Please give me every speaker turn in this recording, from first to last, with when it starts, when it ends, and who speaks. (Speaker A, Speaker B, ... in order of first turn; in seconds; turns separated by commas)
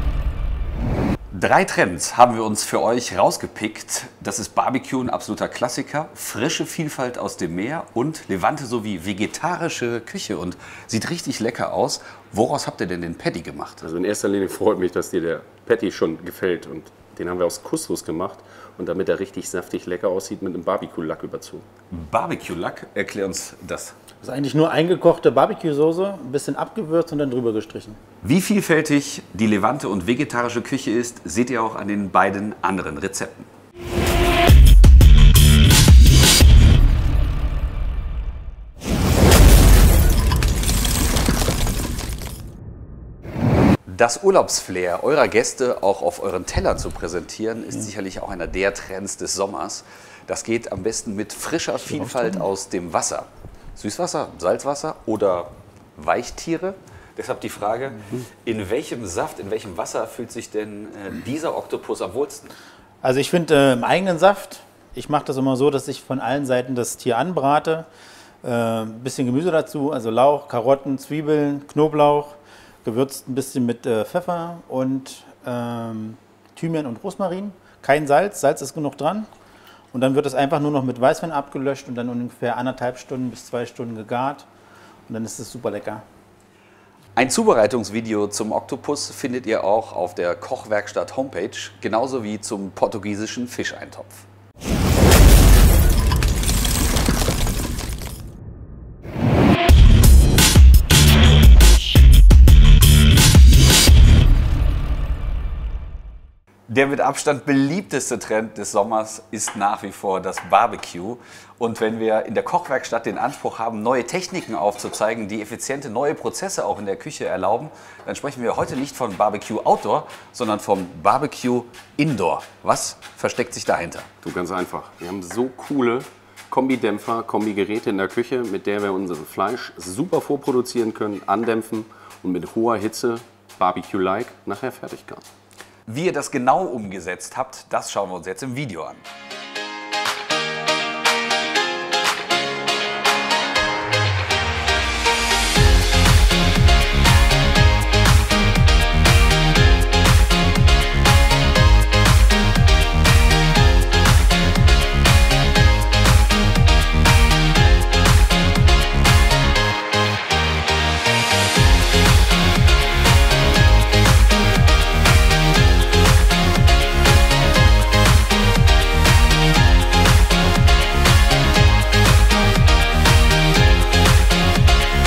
Speaker A: 1.3-13.8, Speaker B: 13.8-21.6, Speaker A: 21.9-24.0, Speaker C: 24.2-28.0, Speaker A: 28.2-33.5, Speaker A: 43.9-62.5, Speaker C: 63.0-67.9, Speaker C: 68.4-79.3, Speaker C: 79.9-84.5, Speaker C: 85.1-86.0, Speaker A: 87.2-94.2, Speaker A: 106.7-124.1, Speaker B: 124.2-135.2, Speaker A: 135.9-139.0